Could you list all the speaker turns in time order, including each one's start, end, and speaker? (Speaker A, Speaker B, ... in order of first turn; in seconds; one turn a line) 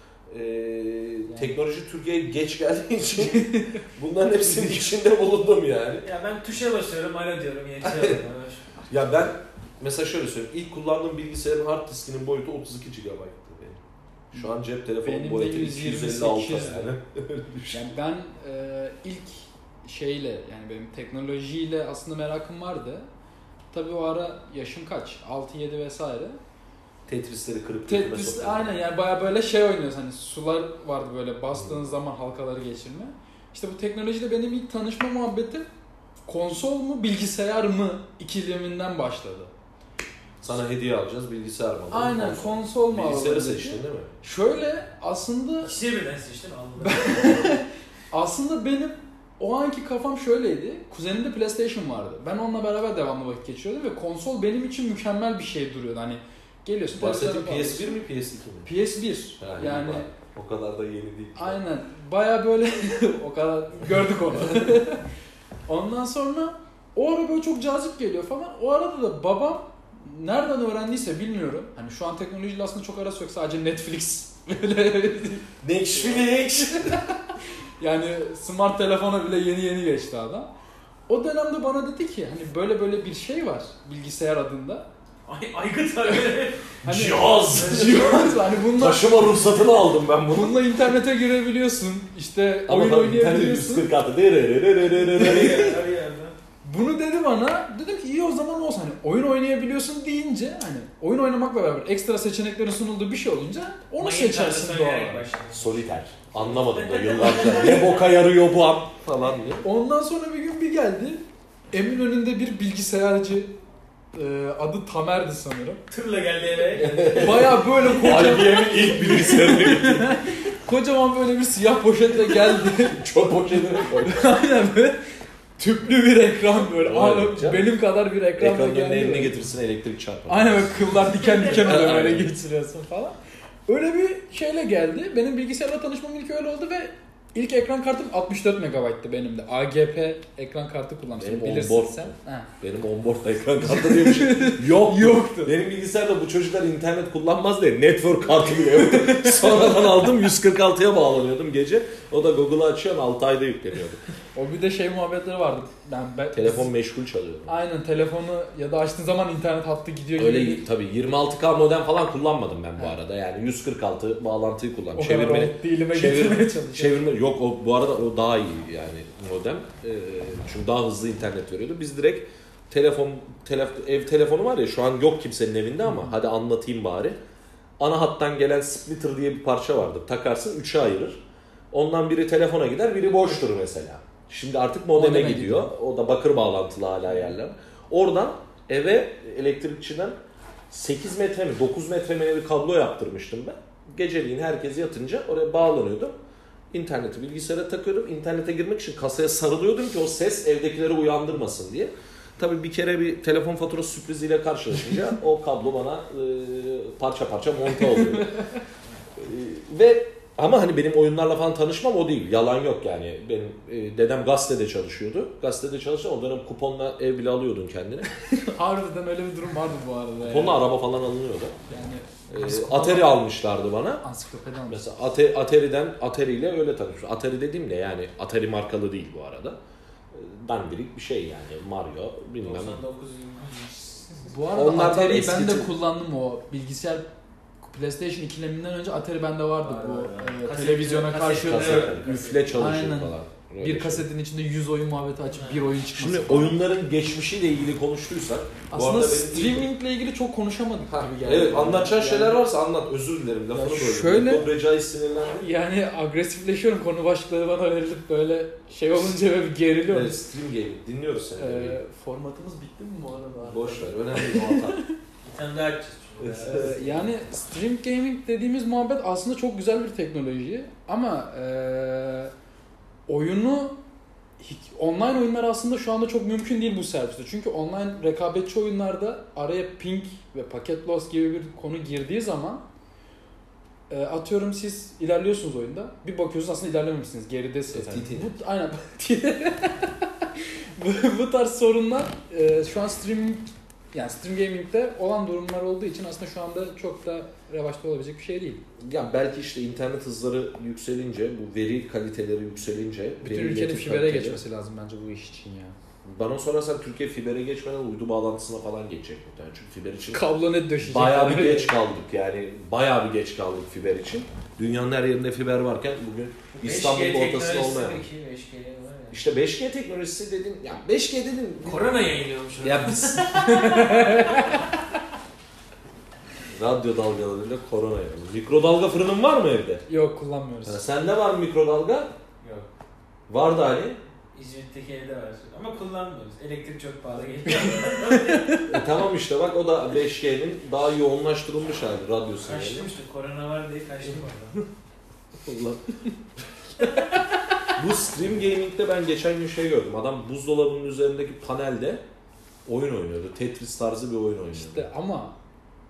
Speaker A: 0.3-6.1
Speaker B: 1.3-1.5
Speaker B: 3.2-3.8
Speaker C: 6.0-8.7
Speaker A: 7.8-8.2
Speaker B: 8.8-9.1
Speaker A: 8.9-13.8
Speaker A: 14.3-17.9
Speaker B: 14.4-16.9
Speaker B: 17.7-23.1
Speaker B: 23.7-26.4
Speaker A: 27.1-28.7
Speaker B: 27.9-35.7
Speaker B: 36.3-39.5
Speaker A: 40.4-44.1
Speaker B: 41.9-45.8
Speaker C: 45.6-47.5
Speaker B: 46.8-58.0
Speaker A: 57.0-58.7
Speaker B: 58.6-60.1
Speaker A: 59.4-61.6
Speaker B: 61.4-65.0
Speaker B: 65.7-77.0
Speaker A: 75.6-77.0
Speaker B: 77.8-80.5
Speaker B: 81.1-84.9
Speaker C: 85.3-86.7
Speaker B: 86.8-89.3
Speaker A: 86.8-90.6
Speaker C: 87.5-88.3
Speaker B: 90.3-93.9
Speaker A: 92.7-95.8
Speaker C: 95.0-96.4
Speaker B: 95.2-95.7
Speaker B: 96.6-105.2
Speaker C: 104.0-108.0
Speaker A: 105.5-109.7
Speaker B: 109.6-113.5
Speaker B: 114.1-115.8
Speaker C: 115.9-117.4
Speaker A: 116.8-120.2
Speaker B: 117.1-123.3
Speaker A: 122.3-124.3
Speaker B: 123.8-125.0
Speaker B: 125.6-129.4
Speaker A: 126.7-127.7
Speaker A: 128.4-132.3
Speaker B: 130.3-133.2
Speaker B: 133.7-142.5
Speaker A: 141.2-154.0
Speaker B: 143.6-145.6
Speaker B: 148.7-150.0
Speaker B: 154.3-156.7
Speaker A: 156.3-157.6
Speaker B: 157.5-160.7
Speaker A: 160.2-177.2
Speaker B: 165.0-167.1
Speaker B: 175.8-176.1
Speaker A: 177.8-190.2
Speaker B: 184.9-185.7
Speaker A: 190.7-196.2
Speaker A: 196.7-208.4
Speaker B: 207.9-208.5
Speaker A: 209.2-218.2
Speaker B: 218.5-220.6
Speaker A: 220.2-221.6
Speaker B: 221.7-223.2
Speaker A: 222.3-224.0
Speaker B: 224.0-224.9
Speaker A: 224.7-229.6
Speaker A: 230.1-232.8
Speaker C: 232.4-234.3
Speaker B: 234.2-237.1
Speaker A: 234.5-235.7
Speaker B: 237.7-242.0
Speaker C: 239.6-242.5
Speaker A: 241.3-244.1
Speaker B: 242.5-246.6
Speaker C: 245.3-245.6
Speaker A: 246.0-249.7
Speaker B: 248.7-252.4
Speaker A: 250.9-255.5
Speaker B: 253.5-254.5
Speaker B: 255.4-260.2
Speaker A: 259.9-261.8
Speaker B: 261.4-264.9
Speaker A: 263.4-264.8
Speaker C: 265.2-266.8
Speaker A: 266.2-266.8
Speaker B: 266.4-272.3
Speaker B: 273.1-273.8
Speaker B: 274.4-282.6
Speaker B: 283.9-298.6
Speaker A: 287.7-288.3
Speaker A: 298.8-304.4
Speaker B: 303.2-305.8
Speaker A: 306.1-310.2
Speaker B: 310.1-311.7
Speaker A: 310.8-318.0
Speaker C: 316.6-319.2
Speaker A: 319.1-324.0
Speaker C: 321.6-324.6
Speaker B: 323.5-324.6
Speaker A: 326.5-329.8
Speaker B: 329.9-330.8
Speaker A: 330.6-332.1
Speaker C: 332.4-332.7
Speaker A: 333.3-334.0
Speaker C: 334.3-338.6
Speaker B: 338.1-338.7
Speaker A: 338.7-342.9
Speaker C: 342.4-344.6
Speaker A: 345.4-346.1
Speaker B: 346.8-347.4
Speaker A: 347.8-352.0
Speaker A: 352.7-354.9
Speaker B: 354.5-355.4